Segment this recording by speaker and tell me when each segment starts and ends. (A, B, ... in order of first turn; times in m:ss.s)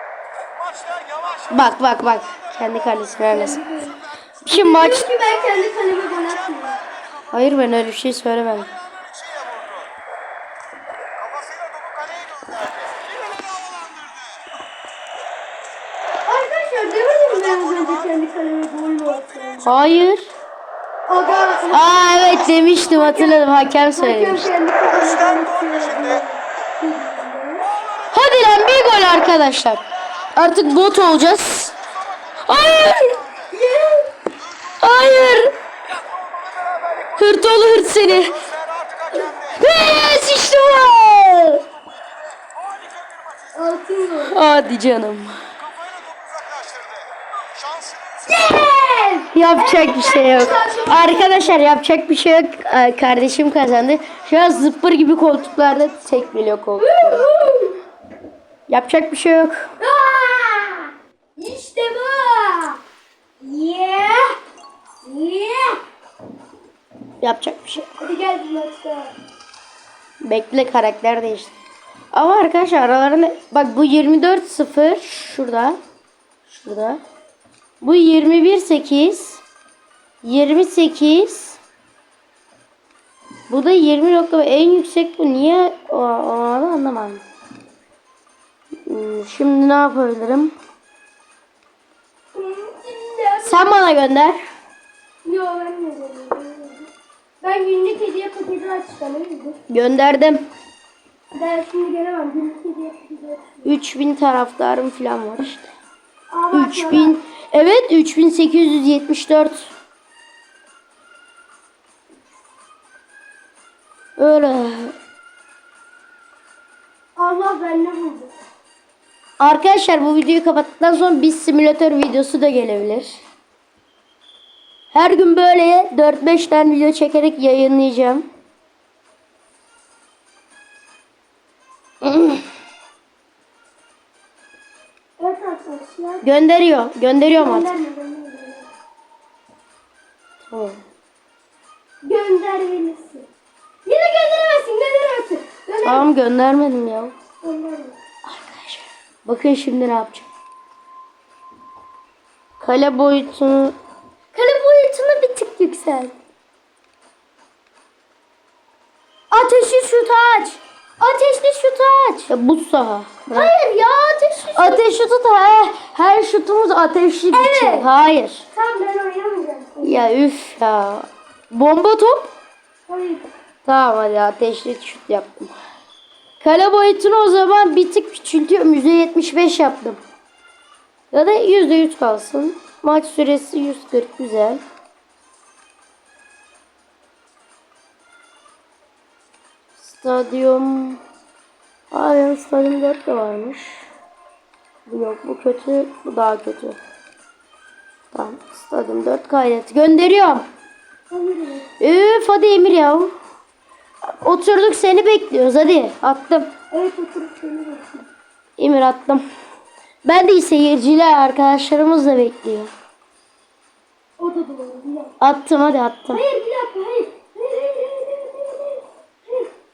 0:00.6-0:01.4 A
0:01.5-0:03.6 B
0:03.3-0:06.8 C
0:04.4-0:05.1 B
0:07.3-0:08.7 B
0:09.0-0:09.8 A
0:11.2-0:14.0 A
0:16.2-0:19.7 C
0:19.6-0:20.3 B
0:21.1-0:23.4 C
0:21.7-0:24.5 B
0:23.9-0:27.7 C
0:28.1-0:29.8 B
0:30.3-0:31.7 B
0:32.4-0:33.2 B
0:33.5-0:34.1 C
0:34.8-0:35.5 B
0:36.2-0:37.1 A
0:37.2-0:38.4 B
0:38.5-0:39.1 A
0:39.5-0:41.6 B
0:42.4-0:43.5 A
0:43.5-0:44.4 C
0:44.3-0:45.4 B
0:45.8-0:47.0 A
0:47.6-0:48.1 A
0:48.2-0:51.6 C
0:49.3-0:57.2 B
0:56.8-0:57.8 C
0:58.7-0:59.6 B
0:59.8-1:02.8 C
1:03.4-1:04.4 C
1:05.0-1:05.8 C
1:07.2-1:07.9 B
1:08.0-1:09.1 C
1:10.2-1:11.5 B
1:12.1-1:15.8 B
1:16.5-1:17.0 B
1:17.8-1:19.4 B
1:20.2-1:21.6 B
1:23.5-1:27.2 B
1:28.8-1:30.5 B
1:32.3-1:33.7 C
1:33.4-1:34.4 B
1:35.2-1:36.9 C
1:37.4-1:39.6 C
1:39.7-1:40.4 B
1:41.3-1:43.6 C
1:43.6-1:45.7 B
1:46.3-1:47.2 C
1:46.5-1:49.7 B
1:54.2-1:54.9 B
1:57.2-1:58.3 C
1:59.4-2:03.2 B
2:04.9-2:08.2 B
2:12.0-2:12.4 B
2:15.2-2:16.2 C
2:16.2-2:17.7 B
2:17.4-2:18.7 C
2:20.5-2:20.8 B
2:22.0-2:23.2 C
2:23.8-2:26.0 C
2:25.8-2:27.1 B
2:27.4-2:28.0 C
2:28.2-2:30.3 B
2:32.6-2:33.7 B
2:34.3-2:36.1 C
2:39.3-2:42.3 C
2:42.3-2:43.5 B
2:43.3-2:44.9 C
2:44.6-2:48.4 B
2:47.3-2:47.9 C
2:48.5-2:50.0 C
2:49.8-2:52.3 B
2:52.9-2:53.3 C
2:53.6-2:55.5 B
2:56.4-3:00.0 B
3:01.1-3:04.6 B
3:09.8-3:11.0 B
3:11.9-3:13.9 B
3:14.9-3:16.8 B
3:18.1-3:20.5 B
3:21.1-3:21.7 C
3:21.8-3:23.1 B
3:24.1-3:26.5 B
3:26.7-3:28.1 C
3:28.6-3:29.2 B
3:30.0-3:32.7 B
3:34.2-3:35.1 C
3:35.2-3:36.2 B
3:36.1-3:39.5 C